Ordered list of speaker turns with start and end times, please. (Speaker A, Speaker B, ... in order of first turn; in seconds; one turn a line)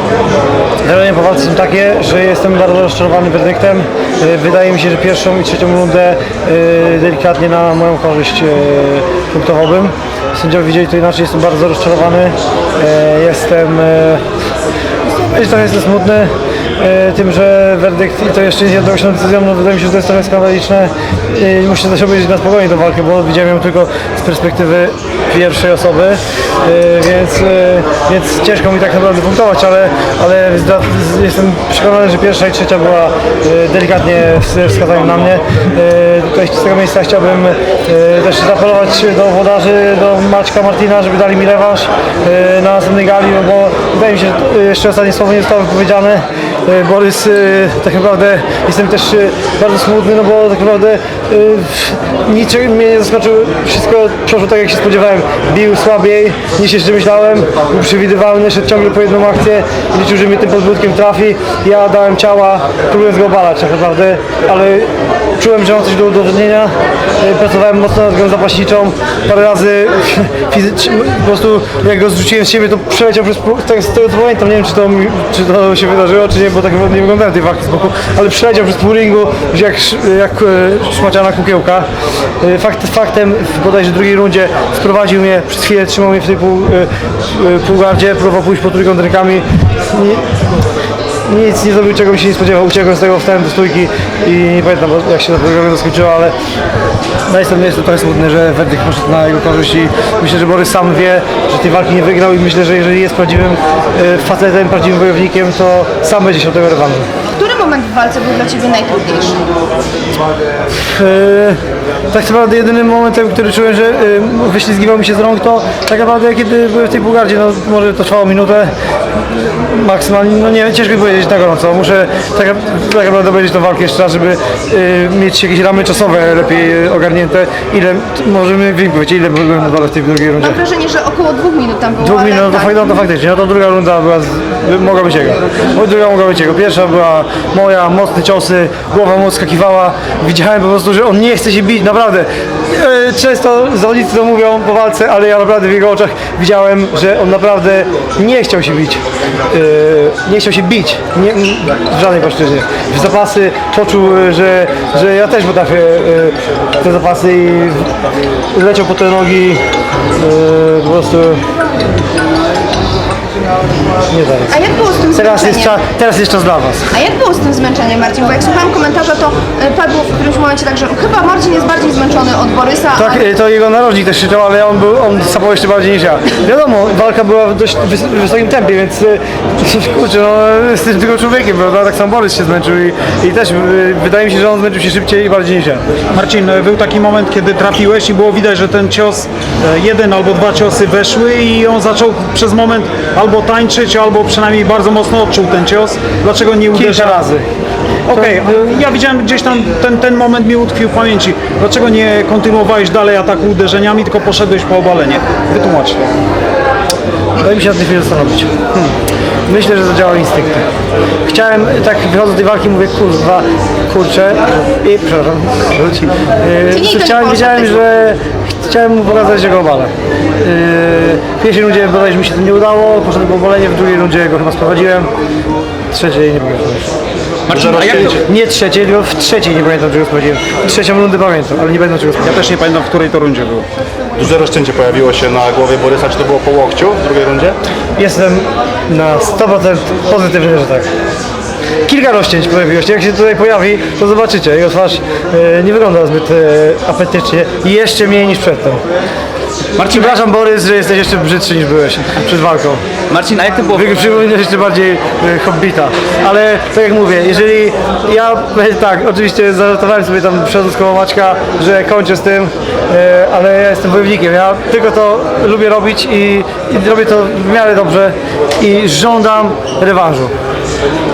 Speaker A: 0.8-14.2
Speaker A: 15.3-81.9
Speaker A: 82.4-90.2
Speaker A: 91.3-96.3
Speaker A: 97.3-107.1
Speaker B: 107.4-109.4
Speaker A: 110.7-111.6
Speaker A: 112.1-118.7
Speaker A: 119.3-130.6
Speaker B: 130.4-132.8
Speaker A: 132.0-157.9
Speaker A: 158.5-159.6
Speaker A: 160.2-161.4
Speaker A: 164.1-164.5
Speaker B: 164.5-165.8
Speaker A: 165.1-166.9
Speaker B: 166.9-173.2
Speaker A: 173.0-185.8
Speaker C: 186.1-197.3
Speaker A: 196.7-197.4
Speaker C: 198.1-206.2
Speaker A: 198.1-198.6
Speaker A: 207.4-208.5
Speaker A: 209.5-210.6
Speaker A: 211.3-225.1
Speaker B: 216.7-217.8
Speaker A: 225.9-226.9
Speaker D: 227.5-228.2
Speaker E: 227.5-228.3
Speaker A: 228.1-232.4
Speaker C: 232.2-233.7
Speaker E: 234.2-237.6
Speaker A: 238.0-240.9
Speaker A: 241.9-248.8
Speaker D: 249.8-250.2
Speaker A: 249.8-252.8
Speaker D: 253.1-253.9
Speaker A: 253.7-270.3